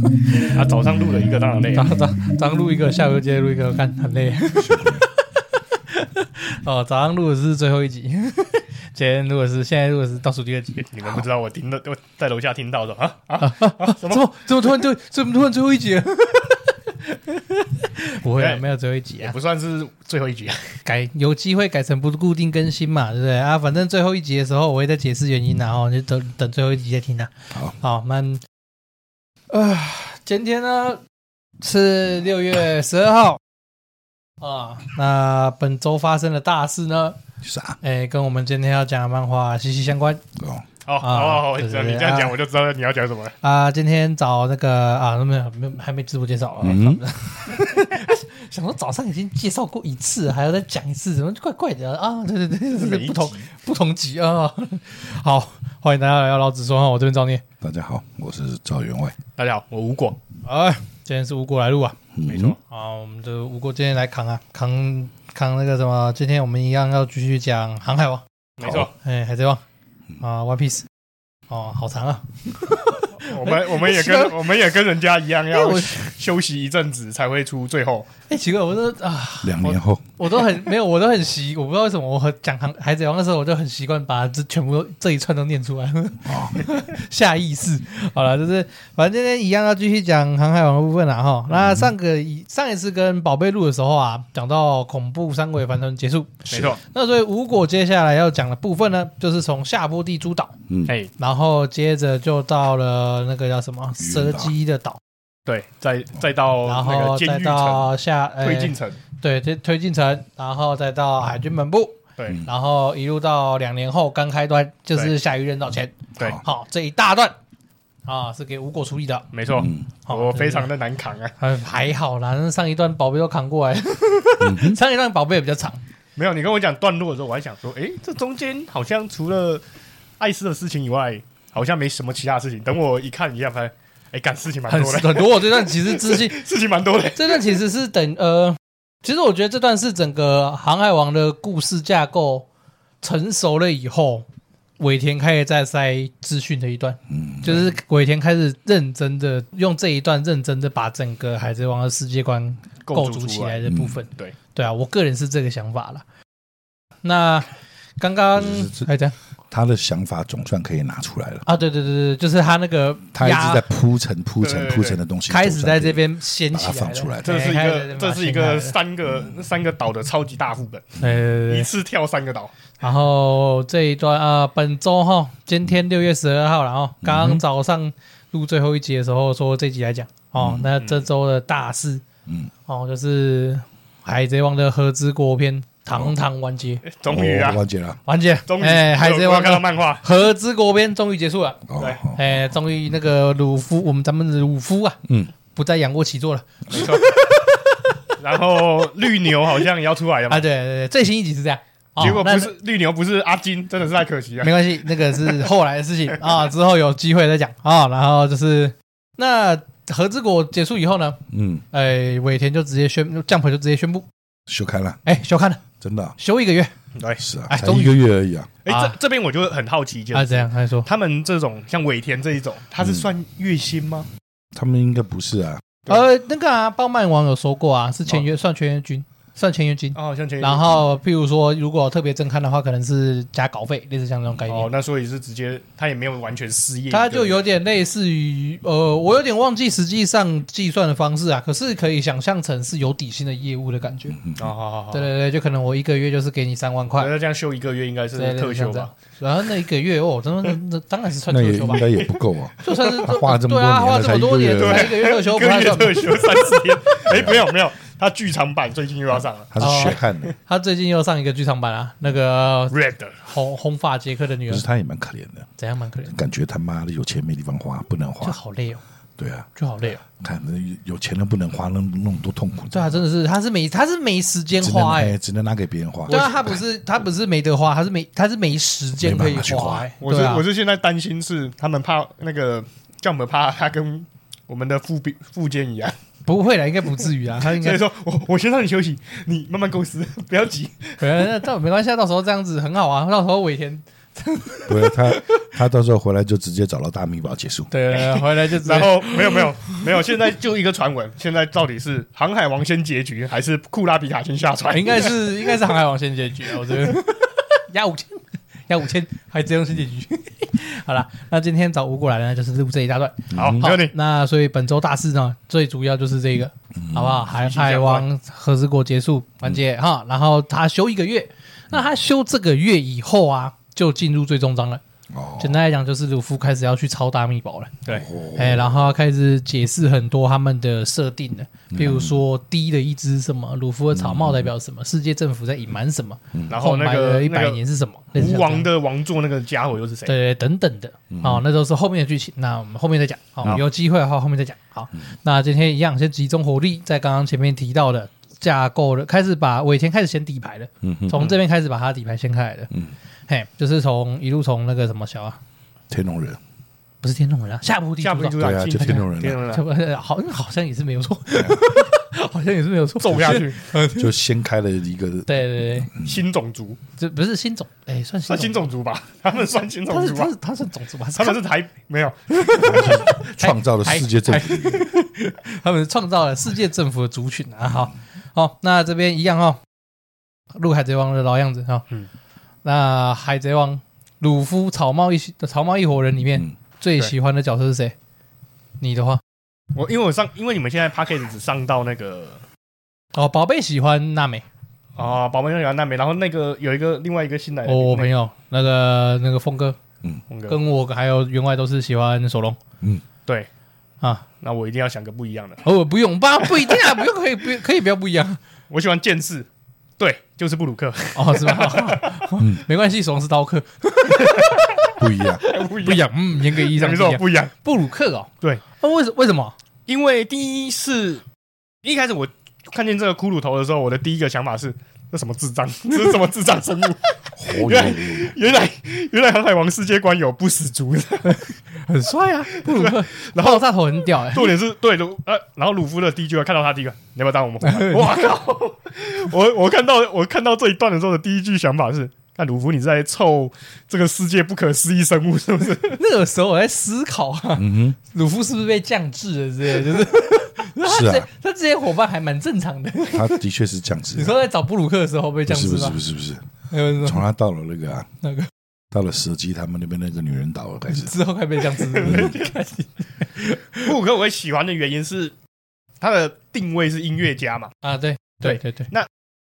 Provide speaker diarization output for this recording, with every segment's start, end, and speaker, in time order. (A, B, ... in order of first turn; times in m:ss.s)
0:00.4-0:01.9 A
0:01.7-0:10.9 B
0:04.6-0:05.0 C
0:10.9-0:14.2 A
0:13.4-0:19.3 B
0:18.4-0:18.6 A
0:19.2-0:20.8 A
0:20.8-0:28.4 B
0:29.5-0:31.0 B
0:31.6-0:33.4 B
0:34.4-0:37.2 B
0:37.4-0:37.8 C
0:37.8-0:40.2 B
0:40.4-0:40.7 C
0:40.8-0:43.3 A
0:41.0-0:42.4 B
0:43.4-0:57.4 B
0:46.6-0:47.0 C
0:52.7-0:53.5 A
0:57.6-0:59.2 C
0:59.4-1:00.2 A
1:00.4-1:02.0 B
1:02.1-1:02.6 C
1:02.2-1:02.6 A
1:02.6-1:08.2 B
1:08.6-1:08.9 A
1:08.6-1:08.9 C
1:08.9-1:09.6 B
1:10.2-1:10.9 B
1:11.5-1:14.5 B
1:13.2-1:18.1 A
1:15.5-1:16.1 B
1:18.3-1:40.6 B
1:19.4-1:20.1 C
1:26.2-1:26.6 C
1:31.5-1:31.9 C
1:36.5-1:36.8 A
1:40.7-1:40.9 C
1:41.2-1:45.0 B
1:44.0-1:44.5 C
1:45.4-1:47.9 A
1:46.7-1:57.4 B
1:48.4-1:49.0 A
1:58.1-1:59.3 B
1:59.3-2:01.3 A
1:59.6-1:59.9 C
2:00.1-2:00.7 B
2:01.4-2:05.8 B
2:04.4-2:04.8 C
2:06.2-2:09.6 A
2:10.2-2:17.6 A
2:14.7-2:16.4 B
2:17.2-2:22.5 B
2:23.0-2:24.2 B
2:24.8-2:36.0 B
2:27.1-2:27.7 C
2:32.8-2:33.6 A
2:33.7-2:34.0 C
2:37.0-2:39.2 B
2:38.3-2:38.9 C
2:39.5-2:41.4 C
2:41.4-2:43.6 B
2:43.1-2:47.4 C
2:44.4-2:45.0 A
2:45.3-2:48.8 B
2:47.2-2:52.5 A
2:51.0-2:51.7 B
2:52.8-3:02.0 B
2:57.0-2:57.4 C
3:00.4-3:00.7 C
3:00.8-3:01.1 A
3:02.7-3:06.8 B
3:06.8-3:07.6 A
3:07.1-3:08.0 C
3:08.1-3:15.0 B
3:08.5-3:10.0 A
3:11.7-3:12.4 C
3:15.0-3:15.3 C
3:15.5-3:17.8 B
3:16.7-3:17.2 A
3:18.2-3:20.4 A
3:20.3-3:22.5 B
3:22.0-3:25.5 A
3:24.4-3:31.2 B
3:31.3-3:31.6 C
3:31.7-3:34.1 B
3:34.5-3:35.0 C
3:35.0-3:35.6 B
3:35.8-3:36.2 C
3:36.2-3:36.7 B
3:37.0-3:37.2 A
3:37.2-3:38.5 C
3:37.5-3:38.1 B
3:38.6-3:44.1 A
3:38.7-3:39.0 B
3:40.1-3:40.9 B
3:44.5-3:45.6 C
3:45.9-3:54.7 B
3:49.9-3:50.7 A
3:54.5-3:57.5 A
3:56.9-4:04.2 B
4:04.2-4:04.5 C
4:04.4-4:05.1 A
4:04.9-4:07.1 B
4:07.0-4:08.9 A
4:08.1-4:11.9 B
4:11.3-4:15.0 C
4:11.8-4:13.0 A
4:12.6-4:16.4 B
4:14.6-4:20.0 A
4:17.1-4:17.5 C
4:19.5-4:20.3 C
4:19.6-4:24.6 B
4:22.7-4:23.2 A
4:24.5-4:25.5 C
4:25.6-4:26.1 B
4:26.1-4:28.4 C
4:28.2-4:28.8 B
4:29.2-4:29.5 C
4:29.6-4:30.0 B
4:30.1-4:33.0 C
4:32.7-4:35.2 B
4:34.6-4:36.6 C
4:36.1-4:40.4 B
4:39.0-4:39.9 C
4:40.0-4:46.0 A
4:46.2-4:47.8 B
4:47.4-4:51.3 A
4:51.0-4:55.4 B
4:54.7-4:57.7 C
4:57.7-5:00.0 B
4:57.9-5:05.2 A
5:04.7-5:24.8 B
5:13.3-5:13.6 C
5:13.3-5:13.9 A
5:16.8-5:17.2 C
5:17.3-5:18.1 A
5:25.1-5:25.6 C
5:25.4-5:38.7 B
5:27.9-5:28.9 C
5:31.7-5:32.2 C
5:33.9-5:34.5 C
5:36.5-5:37.6 A
5:38.1-5:40.1 A
5:40.1-5:52.7 B
5:41.1-5:41.4 C
5:50.8-5:51.2 C
5:53.3-5:55.4 B
5:55.9-5:56.4 C
5:57.0-6:04.1 B
5:58.0-5:59.6 A
5:58.4-5:59.4 C
6:01.4-6:01.6 C
6:03.0-6:03.7 A
6:03.9-6:06.2 C
6:05.3-6:05.9 B
6:06.0-6:06.8 A
6:07.0-6:08.6 B
6:08.3-6:10.3 A
6:09.9-6:11.4 B
6:11.1-6:13.0 A
6:12.3-6:19.6 B
6:12.6-6:14.9 C
6:20.5-6:21.9 B
6:22.6-6:27.9 B
6:28.8-6:29.2 B
6:29.8-6:32.4 A
6:33.1-6:34.4 B
6:35.0-6:38.1 A
6:37.7-6:39.8 B
6:40.3-6:40.6 A
6:40.5-6:42.6 B
6:44.4-6:45.6 A
6:45.6-6:48.4 B
6:46.5-6:46.9 A
6:48.7-6:49.5 A
6:50.0-6:52.3 A
6:51.1-6:59.6 B
6:52.4-6:52.6 C
6:54.2-6:54.9 A
6:55.0-6:55.4 C
6:55.4-6:57.5 A
6:59.9-7:01.2 A
7:01.8-7:11.4 A
7:07.4-7:08.4 C
7:11.2-7:14.6 B
7:12.5-7:13.7 A
7:14.2-7:26.0 A
7:17.6-7:18.4 B
7:25.9-7:33.4 B
7:27.6-7:28.0 C
7:30.8-7:31.3 C
7:33.1-7:34.4 C
7:34.2-7:36.0 B
7:35.4-7:36.4 C
7:36.7-7:37.2 B
7:37.0-7:38.1 C
7:38.2-7:38.5 B
7:38.9-7:41.1 C
7:40.9-7:43.9 B
7:41.8-7:42.5 A
7:42.1-7:42.3 C
7:43.8-7:45.4 A
7:46.0-7:47.7 A
7:47.8-7:48.9 B
7:48.4-7:49.1 A